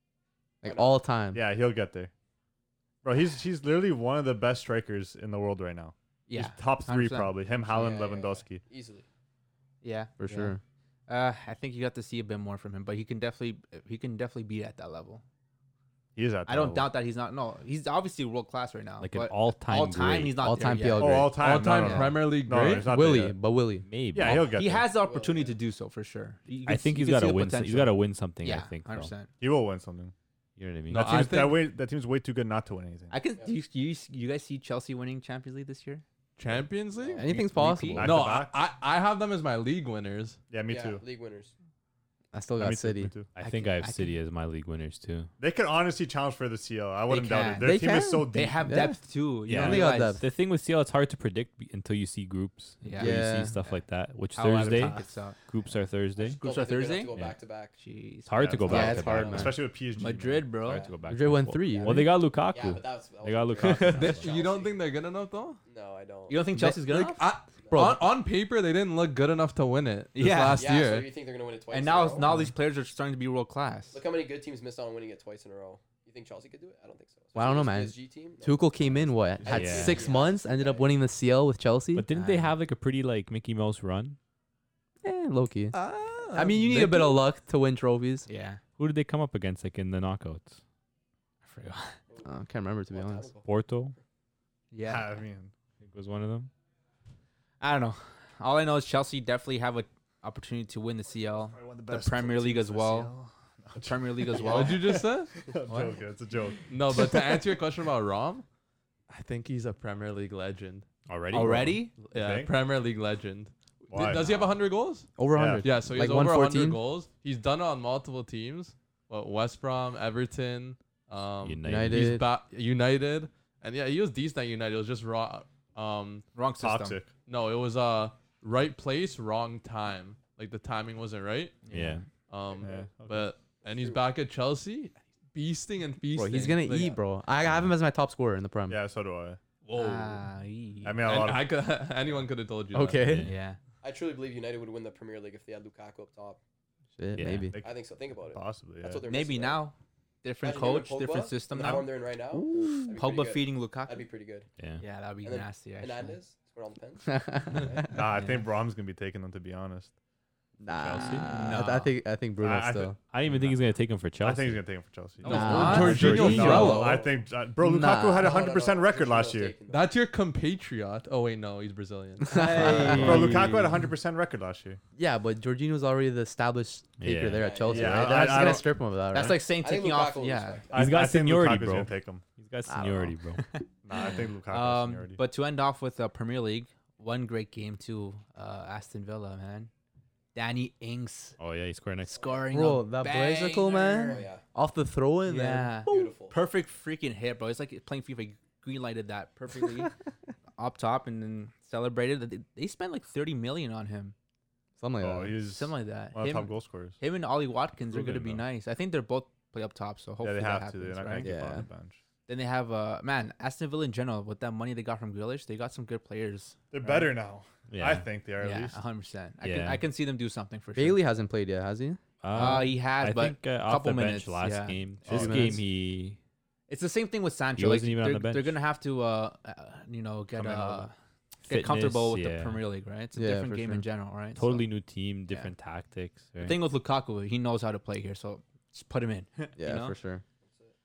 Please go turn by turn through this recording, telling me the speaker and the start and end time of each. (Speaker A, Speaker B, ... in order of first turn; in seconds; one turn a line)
Speaker A: 0.6-1.4
Speaker B: 0.6-0.9
Speaker C: 1.3-2.1
Speaker C: 3.0-8.7
Speaker D: 6.3-7.3
Speaker B: 7.7-9.1
Speaker D: 9.8-10.6
Speaker A: 10.2-10.6
Speaker D: 11.1-15.2
Speaker C: 16.2-16.9
Speaker D: 16.5-22.1
Speaker E: 19.0-20.4
Speaker A: 20.4-21.4
Speaker C: 21.0-23.4
Speaker F: 21.4-23.0
Speaker A: 22.9-23.9
Speaker E: 23.9-24.6
Speaker C: 24.1-24.9
Speaker D: 24.2-29.3
Speaker B: 24.9-25.6
Speaker E: 26.7-29.1
Speaker C: 29.4-30.1
Speaker E: 30.6-31.3
Speaker F: 30.9-31.7
Speaker C: 30.9-33.1
Speaker D: 33.1-36.0
Speaker F: 36.4-37.3
Speaker B: 37.0-37.3
Speaker D: 37.1-38.1
Speaker A: 37.2-38.1
Speaker C: 38.0-38.6
Speaker F: 38.0-40.4
Speaker C: 40.5-41.0
Speaker B: 40.6-41.5
Speaker A: 42.3-43.1
Speaker C: 42.6-43.3
Speaker E: 43.4-45.3
Speaker D: 43.4-44.1
Speaker C: 45.4-48.6
Speaker D: 47.1-50.2
Speaker A: 47.6-50.2
Speaker E: 49.5-56.4
Speaker D: 52.8-53.8
Speaker A: 53.0-53.5
Speaker D: 54.3-55.4
Speaker C: 54.6-55.0
Speaker B: 56.2-57.7
Speaker D: 56.2-57.2
Speaker D: 57.8-59.0
Speaker E: 58.3-59.5
Speaker C: 58.4-60.6
Speaker A: 58.7-59.6
Speaker B: 58.7-59.5
Speaker D: 60.0-60.9
Speaker B: 60.6-61.0
Speaker E: 60.7-64.3
Speaker A: 61.1-62.1
Speaker B: 61.7-64.8
Speaker F: 63.9-65.6
Speaker B: 65.7-66.4
Speaker D: 66.3-67.3
Speaker A: 66.6-68.0
Speaker F: 67.2-71.1
Speaker B: 67.6-67.9
Speaker D: 70.2-70.7
Speaker B: 70.6-72.3
Speaker D: 71.7-74.0
Speaker A: 72.2-72.5
Speaker B: 73.9-80.9
Speaker A: 77.3-82.1
Speaker E: 79.5-80.1
Speaker E: 81.9-84.2
Speaker A: 85.0-88.3
Speaker F: 85.7-87.2
Speaker D: 88.3-88.6
Speaker E: 88.8-90.6
Speaker D: 91.4-92.0
Speaker A: 92.2-93.3
Speaker B: 92.9-93.5
Speaker E: 93.5-94.0
Speaker D: 94.7-95.2
Speaker C: 94.8-95.5
Speaker E: 95.8-96.5
Speaker D: 97.6-103.1
Speaker C: 101.4-106.7
Speaker D: 103.8-105.0
Speaker F: 104.4-105.3
Speaker D: 105.7-106.0
Speaker F: 106.7-108.5
Speaker F: 109.1-110.9
Speaker E: 111.1-111.8
Speaker D: 111.3-112.0
Speaker C: 112.1-112.5
Speaker F: 112.1-126.3
Speaker C: 113.9-114.5
Speaker A: 115.2-116.8
Speaker C: 115.3-115.7
Speaker E: 121.4-122.1
Speaker A: 121.7-122.2
Speaker D: 126.3-127.0
Speaker C: 126.6-127.1
Speaker F: 127.3-131.7
Speaker D: 131.6-132.1
Speaker E: 131.7-132.1
Speaker F: 132.3-137.0
Speaker C: 132.6-133.4
Speaker B: 133.7-134.0
Speaker A: 136.2-138.8
Speaker E: 137.4-137.7
Speaker C: 138.7-139.4
Speaker F: 139.7-140.3
Speaker D: 139.7-141.0
Speaker C: 140.8-141.5
Speaker F: 141.0-143.2
Speaker A: 142.7-143.3
Speaker E: 143.0-143.4
Speaker D: 143.2-143.6
Speaker B: 143.8-146.4
Speaker A: 147.0-147.6
Speaker E: 147.2-147.5
Speaker C: 147.5-149.1
Speaker B: 147.6-149.6
Speaker D: 149.1-151.9
Speaker B: 150.4-154.5
Speaker A: 152.3-153.0
Speaker D: 152.9-154.1
Speaker D: 154.8-156.2
Speaker B: 155.2-157.9
Speaker A: 157.1-157.9
Speaker C: 157.9-159.9
Speaker D: 158.1-158.4
Speaker A: 160.6-163.0
Speaker E: 160.8-161.3
Speaker D: 161.0-161.9
Speaker C: 162.4-163.6
Speaker E: 163.1-164.6
Speaker C: 164.2-169.6
Speaker F: 165.2-167.0
Speaker D: 165.2-167.0
Speaker E: 165.3-166.8
Speaker A: 165.3-167.1
Speaker A: 167.6-168.4
Speaker B: 168.2-169.9
Speaker F: 169.7-173.2
Speaker A: 172.3-173.7
Speaker D: 172.3-173.3
Speaker E: 172.6-173.4
Speaker C: 172.9-174.8
Speaker A: 175.0-179.4
Speaker E: 177.0-177.6
Speaker B: 177.4-178.1
Speaker C: 177.7-178.7
Speaker D: 178.1-180.7
Speaker B: 179.5-180.8
Speaker C: 180.7-182.2
Speaker E: 180.7-183.4
Speaker A: 182.7-183.2
Speaker D: 183.4-189.7
Speaker C: 183.8-185.2
Speaker D: 190.3-191.3
Speaker E: 191.4-192.2
Speaker D: 192.1-194.3
Speaker B: 192.2-192.4
Speaker A: 192.5-196.1
Speaker B: 194.1-194.4
Speaker D: 195.3-199.9
Speaker B: 195.9-196.3
Speaker D: 200.6-204.2
Speaker A: 204.8-205.4
Speaker C: 205.0-207.0
Speaker D: 205.5-211.3
Speaker E: 207.9-208.4
Speaker C: 210.2-212.0
Speaker A: 211.2-211.7
Speaker D: 212.3-217.1
Speaker C: 216.7-218.8
Speaker E: 217.7-218.1
Speaker D: 218.4-221.0
Speaker E: 219.4-219.8
Speaker A: 220.8-222.0
Speaker E: 222.2-226.2
Speaker D: 222.3-224.8
Speaker C: 225.1-225.5
Speaker A: 225.1-225.6
Speaker D: 226.7-230.9
Speaker E: 227.6-228.6
Speaker C: 230.4-230.8
Speaker E: 231.4-232.6
Speaker D: 231.5-234.7
Speaker A: 233.2-233.9
Speaker E: 234.4-236.6
Speaker D: 236.4-240.0
Speaker A: 239.6-240.2
Speaker B: 240.5-240.7